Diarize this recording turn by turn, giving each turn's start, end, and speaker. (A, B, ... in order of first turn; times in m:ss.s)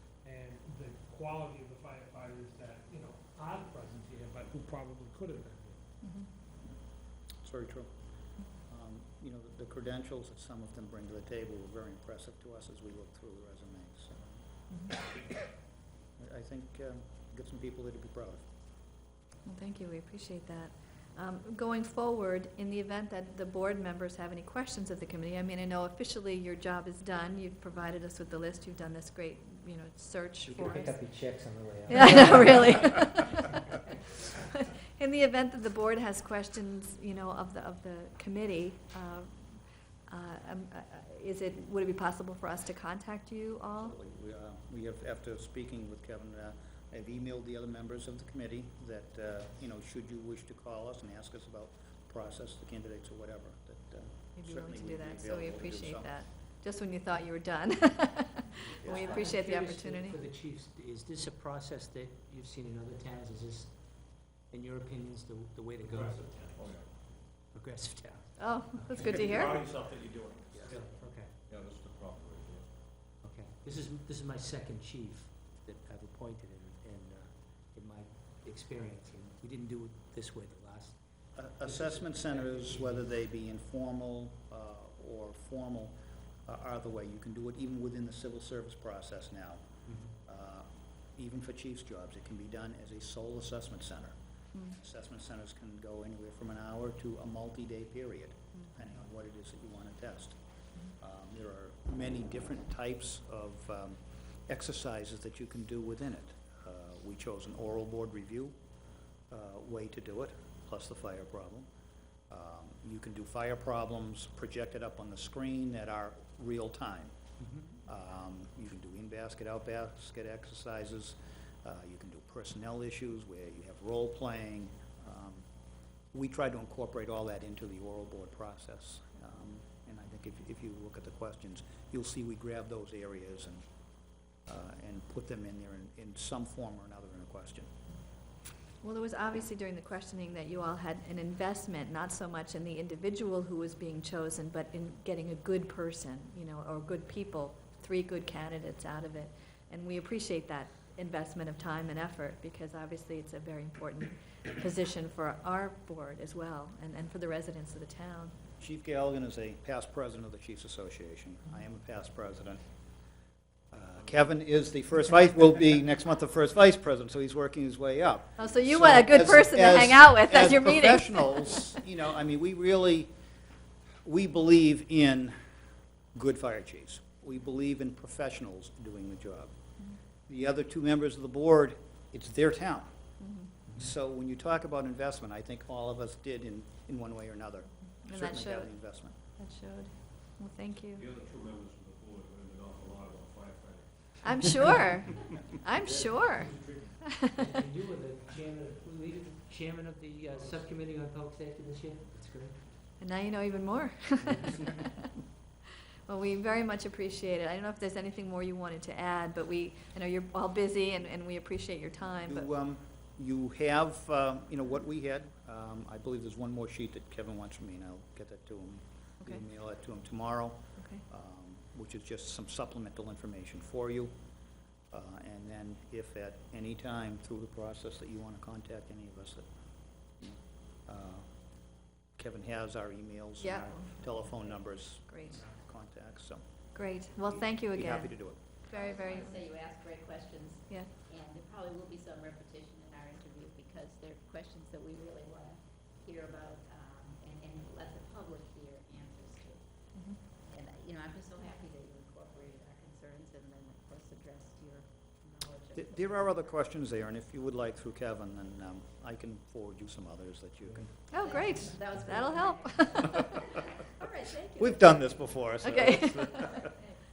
0:00.2-0:05.8 A
0:06.0-0:06.3 B
0:07.4-0:07.9 C
0:08.7-0:14.4 C
0:14.7-0:15.0 B
0:16.2-0:18.4 C
0:19.5-0:31.0 B
0:30.4-0:33.0 D
0:31.9-0:33.4 B
0:34.5-0:44.0 B
0:43.8-0:56.1 C
0:54.4-1:00.2 B
0:58.8-0:59.3 C
0:59.0-1:06.6 D
1:05.8-1:06.9 E
1:07.4-1:09.0 D
1:08.4-1:09.6 B
1:09.0-1:12.7 E
1:10.5-1:11.4 D
1:13.2-1:21.0 D
1:21.4-1:26.0 C
1:21.7-1:23.0 D
1:26.5-1:29.6 C
1:30.2-1:34.2 C
1:34.7-1:40.4 C
1:41.0-1:48.6 C
1:49.3-1:51.7 C
1:52.3-1:57.1 C
1:57.4-1:57.8 D
1:57.9-2:05.4 C
2:06.1-2:13.6 C
2:14.5-2:17.7 C
2:18.8-2:38.3 B
2:38.6-2:42.6 C
2:43.7-2:53.1 C
2:48.4-2:51.7 B
2:54.0-2:55.4 C
2:56.2-2:59.5 C
3:00.3-3:02.9 C
3:03.2-3:03.6 B
3:03.7-3:09.2 C
3:08.0-3:11.0 B
3:10.9-3:14.7 E
3:14.2-3:17.4 B
3:17.4-3:22.6 D
3:23.0-3:25.1 B
3:24.2-3:24.6 D
3:26.1-3:32.5 B
3:32.3-3:44.1 C
3:44.9-3:49.5 C
3:50.2-3:51.2 C
3:52.2-3:56.4 C
3:53.4-3:53.9 B
3:55.1-3:55.4 B
3:56.7-3:59.4 B
3:57.4-3:58.4 C
3:58.7-4:09.6 F
4:09.9-4:10.2 B
4:10.5-4:16.5 F
4:15.7-4:20.9 C
4:21.1-4:23.3 B
4:21.1-4:25.4 F
4:24.6-4:26.7 C
4:25.6-4:26.6 B